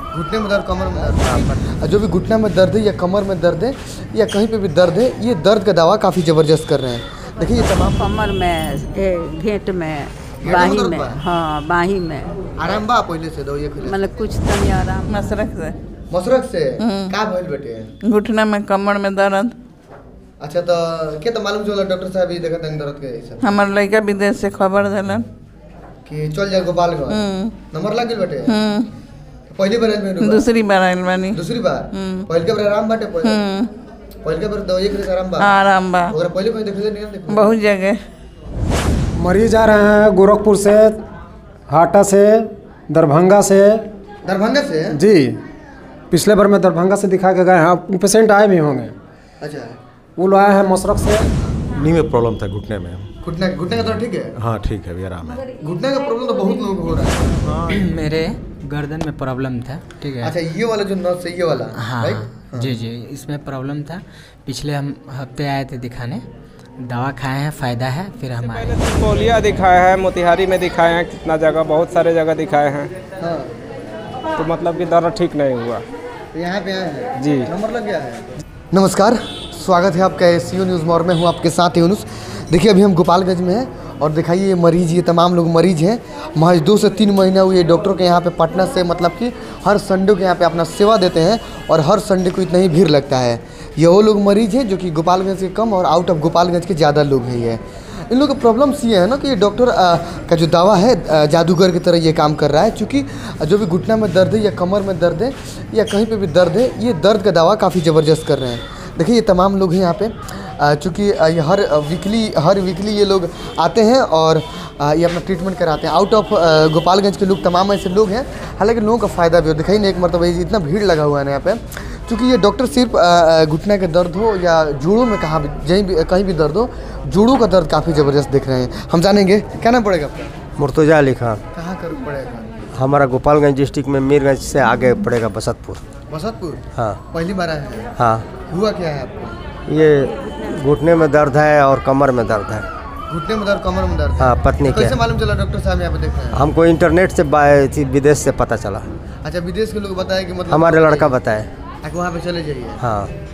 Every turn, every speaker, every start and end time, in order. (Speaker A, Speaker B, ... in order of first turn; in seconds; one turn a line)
Speaker A: 0.1-8.2
Speaker B: 1.1-1.5
Speaker C: 7.8-12.4
Speaker A: 10.4-11.2
Speaker A: 12.6-14.1
Speaker C: 13.8-15.3
Speaker D: 15.1-15.8
Speaker A: 16.1-17.9
Speaker D: 16.8-17.1
Speaker D: 18.1-19.6
Speaker A: 20.4-23.6
Speaker D: 23.4-25.3
Speaker A: 26.1-28.6
Speaker D: 27.1-27.5
Speaker D: 28.5-28.9
Speaker A: 29.5-30.5
Speaker D: 30.2-31.4
Speaker A: 31.3-33.4
Speaker D: 31.9-32.2
Speaker D: 33.2-33.7
Speaker A: 34.2-35.5
Speaker D: 35.4-36.1
Speaker A: 36.1-37.5
Speaker D: 37.3-38.0
Speaker E: 39.2-41.0
Speaker E: 41.7-43.9
Speaker A: 44.2-45.0
Speaker E: 44.9-45.4
Speaker E: 46.1-48.9
Speaker A: 49.4-49.8
Speaker E: 50.2-51.3
Speaker F: 51.6-53.1
Speaker A: 53.2-54.3
Speaker F: 53.7-55.5
Speaker A: 55.5-57.5
Speaker F: 57.4-58.0
Speaker G: 57.7-60.3
Speaker A: 60.2-62.7
Speaker G: 61.7-66.2
Speaker G: 66.8-68.8
Speaker H: 68.4-72.9
Speaker A: 73.2-73.5
Speaker H: 74.4-75.8
Speaker A: 76.3-130.3
Speaker H: 77.2-77.5
Speaker B: 130.6-131.4
Speaker A: 131.5-132.6
Speaker B: 132.7-135.8
Speaker A: 136.1-137.9
Speaker B: 136.8-137.0
Speaker B: 138.0-138.2
Speaker A: 138.4-139.4
Speaker B: 139.7-142.7
Speaker A: 143.1-146.5
Speaker B: 144.2-145.0
Speaker B: 146.3-148.9
Speaker A: 149.2-151.2
Speaker B: 150.5-151.5
Speaker A: 151.8-152.8
Speaker B: 152.8-153.1